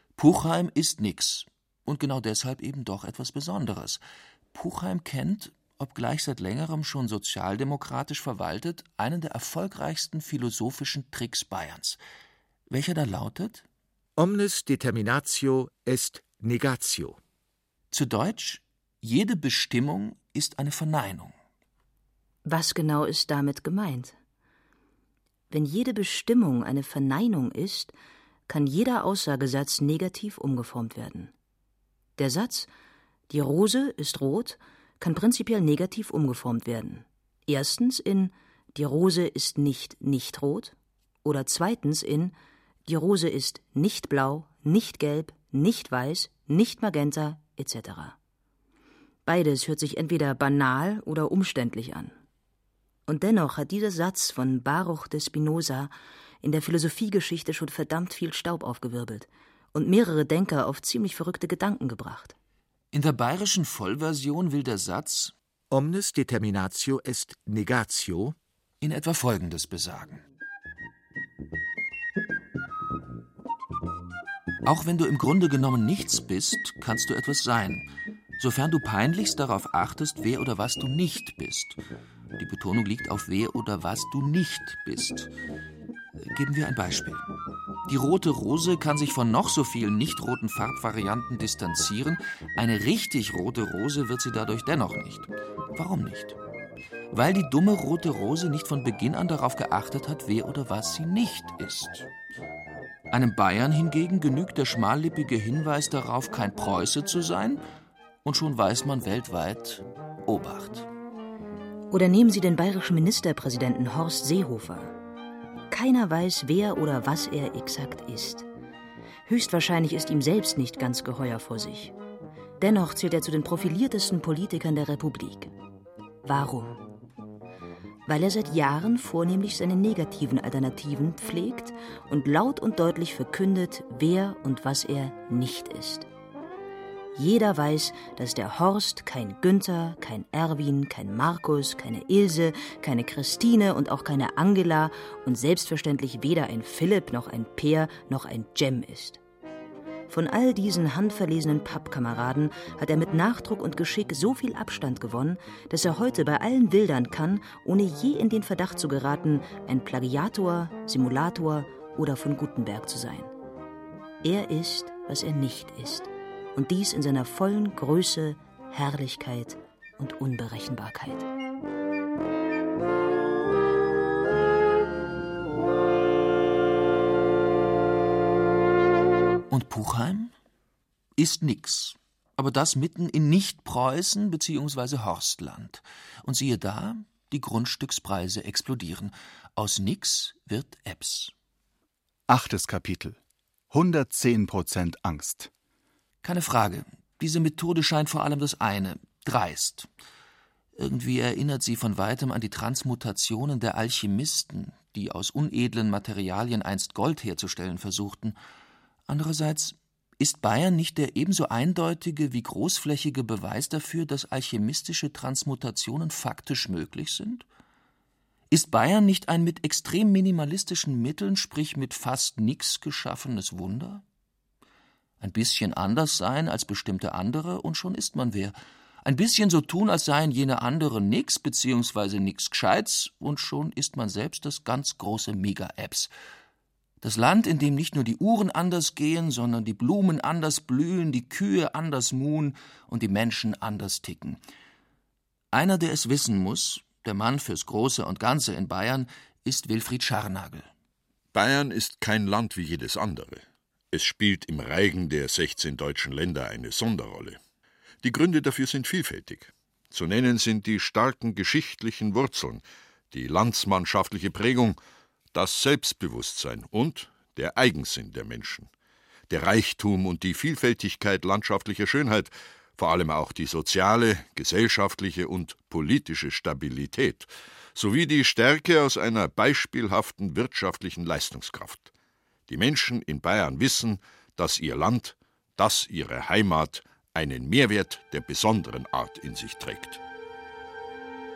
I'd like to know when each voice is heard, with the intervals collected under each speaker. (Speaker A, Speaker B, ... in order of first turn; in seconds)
Speaker A: 0.2-4.0, 4.5-12.0, 12.7-13.6, 17.9-21.3, 62.9-65.3, 68.8-70.2, 74.6-77.9, 78.4-81.8, 82.4-85.3, 86.3-87.3, 87.9-96.4, 97.1-102.1, 103.1-107.6, 108.2-110.9, 179.5-180.3, 181.2-191.3, 196.2-199.9, 200.8-208.3, 209.1-217.4, 218.5-224.0, 225.2-236.1, 237.0-244.4, 245.5-250.7
Speaker B: 14.2-17.2, 65.7-68.3
Speaker C: 22.4-24.1, 25.5-27.9, 28.5-31.3, 32.2-32.7, 33.3-42.3, 42.9-48.1, 49.2-52.1, 53.1-62.4, 111.9-114.9, 115.7-118.5, 119.3-121.9, 122.6-125.5, 126.2-126.8, 128.1-136.1, 137.1-149.2, 150.1-163.3, 164.2-171.3
Speaker D: 192.3-193.2, 193.7-195.5
Speaker E: 251.3-257.4, 258.0-264.8, 265.3-268.7, 269.3-281.9, 282.5-290.0